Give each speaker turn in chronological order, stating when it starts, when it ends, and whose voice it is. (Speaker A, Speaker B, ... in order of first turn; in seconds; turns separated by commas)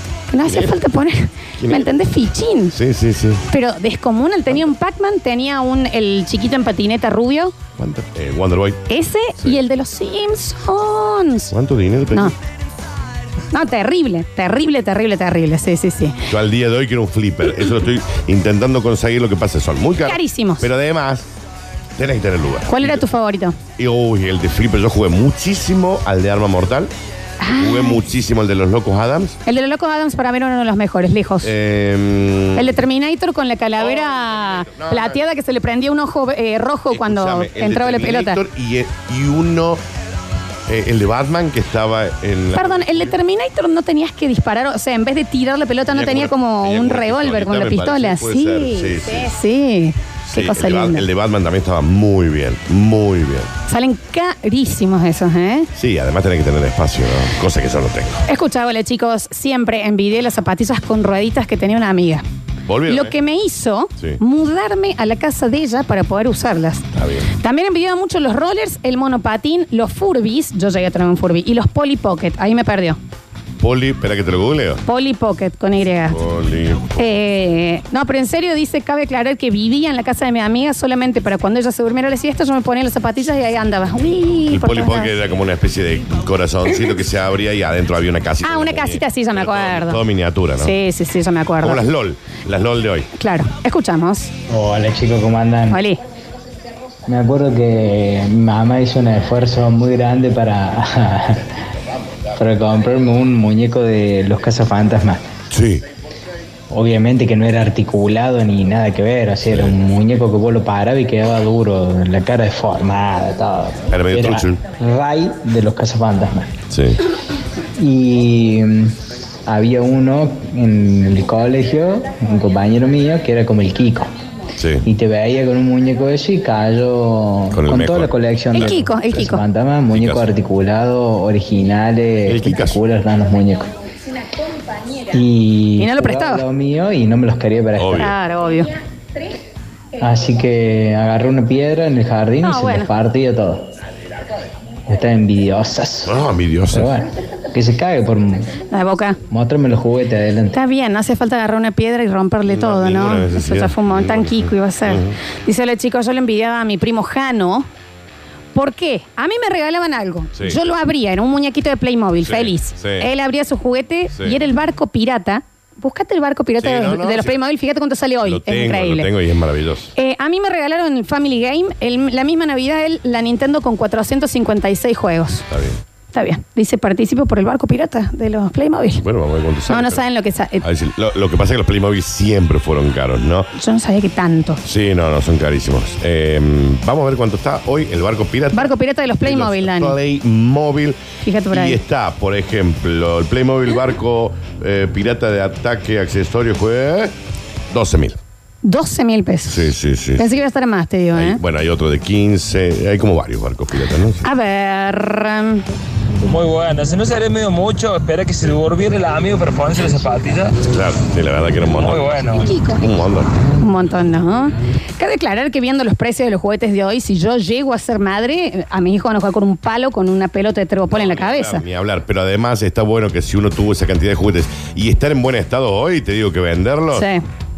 Speaker A: 0.3-2.7, Speaker B: 0.4-0.8, Speaker B: 1.6-1.9, Speaker B: 2.7-3.4, Speaker A: 3.5-7.5, Speaker B: 7.8-8.8, Speaker A: 8.9-11.5, Speaker B: 11.5-12.3, Speaker A: 13.5-16.2, Speaker B: 16.3-21.3, Speaker A: 20.0-20.7, Speaker B: 22.0-23.0, Speaker A: 22.7-23.6, Speaker B: 23.8-26.9, Speaker A: 27.4-28.0, Speaker B: 27.6-29.4, Speaker A: 29.4-31.5, Speaker B: 31.4-32.8, Speaker A: 32.5-38.4, Speaker B: 33.8-35.2, Speaker B: 36.9-39.8, Speaker B: 40.7-43.1, Speaker A: 42.5-51.0, Speaker B: 45.9-49.3, Speaker B: 50.3-53.5, Speaker A: 53.7-55.7, Speaker B: 55.7-58.2, Speaker A: 58.3-62.2, Speaker B: 62.7-63.1, Speaker A: 62.9-66.8, Speaker B: 66.9-67.3, Speaker A: 67.4-73.0, Speaker B: 73.6-74.8, Speaker A: 74.8-76.2, Speaker B: 76.1-77.0, Speaker A: 77.0-85.1, Speaker B: 84.5-90.7, Speaker A: 88.4-90.0, Speaker A: 90.6-91.8, Speaker B: 91.6-93.1, Speaker A: 93.2-94.3, Speaker C: 94.5-95.8, Speaker A: 95.7-96.0, Speaker C: 97.1-101.6, Speaker C: 102.3-105.2, Speaker B: 105.5-105.8, Speaker C: 106.7-116.5, Speaker B: 113.9-114.6, Speaker B: 116.7-117.0, Speaker C: 117.8-124.1, Speaker B: 124.6-124.8, Speaker C: 124.8-133.7, Speaker B: 127.5-128.8, Speaker A: 128.5-129.4, Speaker B: 129.9-130.2, Speaker B: 132.2-132.8, Speaker C: 135.1-138.1, Speaker A: 135.8-136.4, Speaker B: 137.8-138.1, Speaker A: 138.0-138.7, Speaker C: 140.0-143.7, Speaker A: 142.4-142.9, Speaker C: 144.9-146.2, Speaker B: 146.0-146.9, Speaker C: 146.7-148.5, Speaker A: 148.7-149.2, Speaker C: 149.3-150.6, Speaker A: 150.5-157.7, Speaker B: 152.5-155.2, Speaker A: 158.5-169.1, Speaker B: 162.2-163.1, Speaker B: 166.6-167.4, Speaker B: 168.2-169.9, Speaker A: 169.9-175.4, Speaker B: 175.5-175.8, Speaker A: 176.1-179.0, Speaker B: 179.0-180.0, Speaker A: 179.7-180.6, Speaker B: 180.6-183.5, Speaker A: 183.6-184.6, Speaker B: 184.6-191.0, Speaker A: 188.5-189.9, Speaker A: 191.2-191.8, Speaker B: 191.5-197.1, Speaker B: 197.7-198.2, Speaker A: 198.6-201.4, Speaker B: 199.5-200.4, Speaker B: 201.1-204.2, Speaker A: 204.2-205.6, Speaker D: 206.2-210.6, Speaker B: 210.7-213.3, Speaker D: 211.8-212.4, Speaker A: 212.3-212.8, Speaker A: 213.6-221.6, Speaker B: 220.9-227.1, Speaker A: 226.9-227.2